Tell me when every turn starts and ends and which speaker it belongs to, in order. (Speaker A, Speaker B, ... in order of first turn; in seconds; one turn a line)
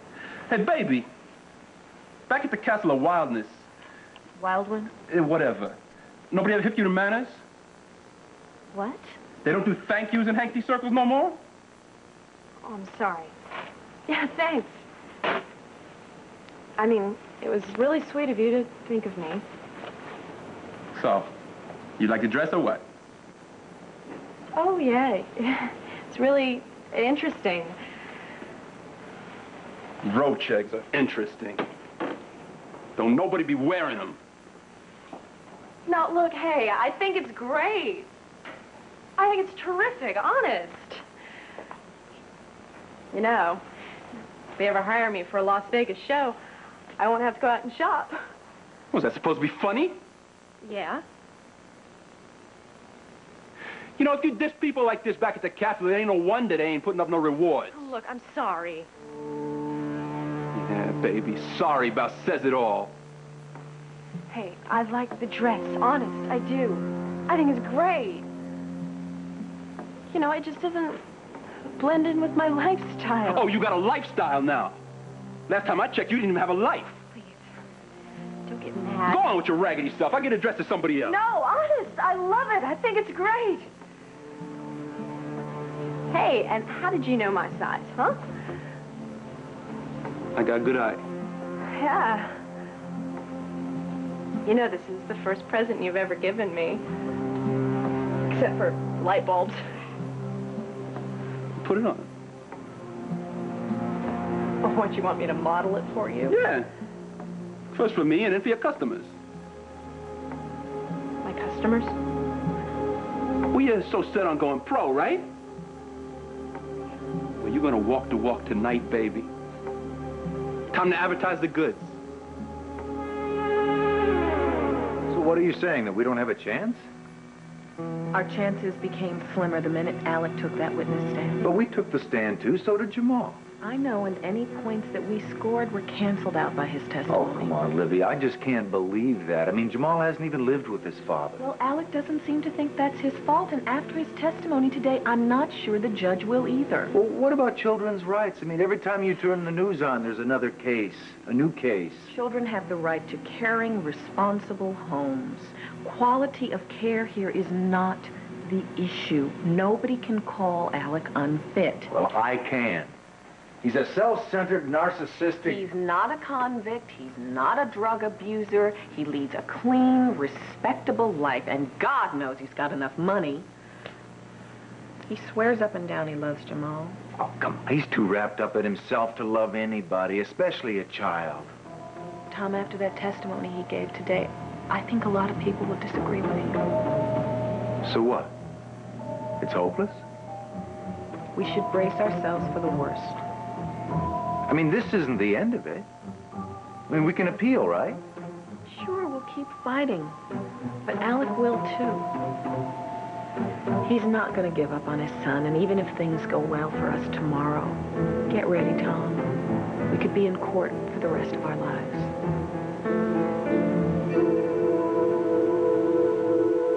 Speaker A: 0.5-1.1
Speaker A: 2.3-3.7
Speaker B: 4.4-4.9
Speaker A: 5.1-5.8
Speaker A: 6.3-7.4
Speaker A: 9.4-11.4
Speaker B: 12.6-13.3
Speaker B: 14.1-14.8
Speaker B: 16.8-19.4
Speaker A: 20.9-21.3
Speaker A: 22.0-22.9
Speaker B: 24.5-27.8
Speaker A: 30.0-31.6
Speaker A: 33.0-34.2
Speaker B: 35.9-38.1
Speaker B: 39.2-41.0
Speaker B: 43.1-43.6
Speaker B: 44.6-46.4
Speaker B: 47.0-48.2
Speaker A: 48.9-50.0
Speaker B: 50.6-51.0
Speaker A: 54.0-57.9
Speaker B: 57.7-58.9
Speaker A: 60.5-62.9
Speaker B: 64.3-68.2
Speaker B: 70.1-71.0
Speaker B: 71.7-73.5
Speaker A: 73.3-74.8
Speaker A: 75.5-77.0
Speaker B: 78.5-79.3
Speaker A: 79.1-81.2
Speaker B: 81.1-83.7
Speaker B: 86.1-88.2
Speaker A: 90.4-91.0
Speaker B: 91.6-92.3
Speaker B: 94.4-96.8
Speaker B: 98.3-99.6
Speaker A: 101.6-102.1
Speaker B: 104.6-106.4
Speaker A: 106.3-106.7
Speaker A: 107.7-109.1
Speaker B: 111.2-112.0
Speaker A: 113.5-115.3
Speaker A: 117.4-119.3
Speaker A: 120.7-122.0
Speaker C: 125.1-126.8
Speaker D: 128.1-131.4
Speaker C: 131.4-133.4
Speaker D: 133.6-137.6
Speaker C: 137.1-141.4
Speaker D: 141.4-146.9
Speaker C: 146.9-152.1
Speaker D: 152.1-161.9
Speaker C: 161.9-162.9
Speaker C: 163.6-165.7
Speaker D: 165.4-173.5
Speaker D: 175.1-177.0
Speaker C: 177.2-181.5
Speaker D: 182.3-186.7
Speaker C: 187.8-188.3
Speaker C: 189.4-190.0
Speaker D: 191.3-193.2
Speaker C: 194.5-195.9
Speaker C: 196.9-198.0
Speaker D: 198.7-200.2
Speaker D: 200.9-202.1
Speaker D: 203.8-209.3
Speaker D: 209.9-212.1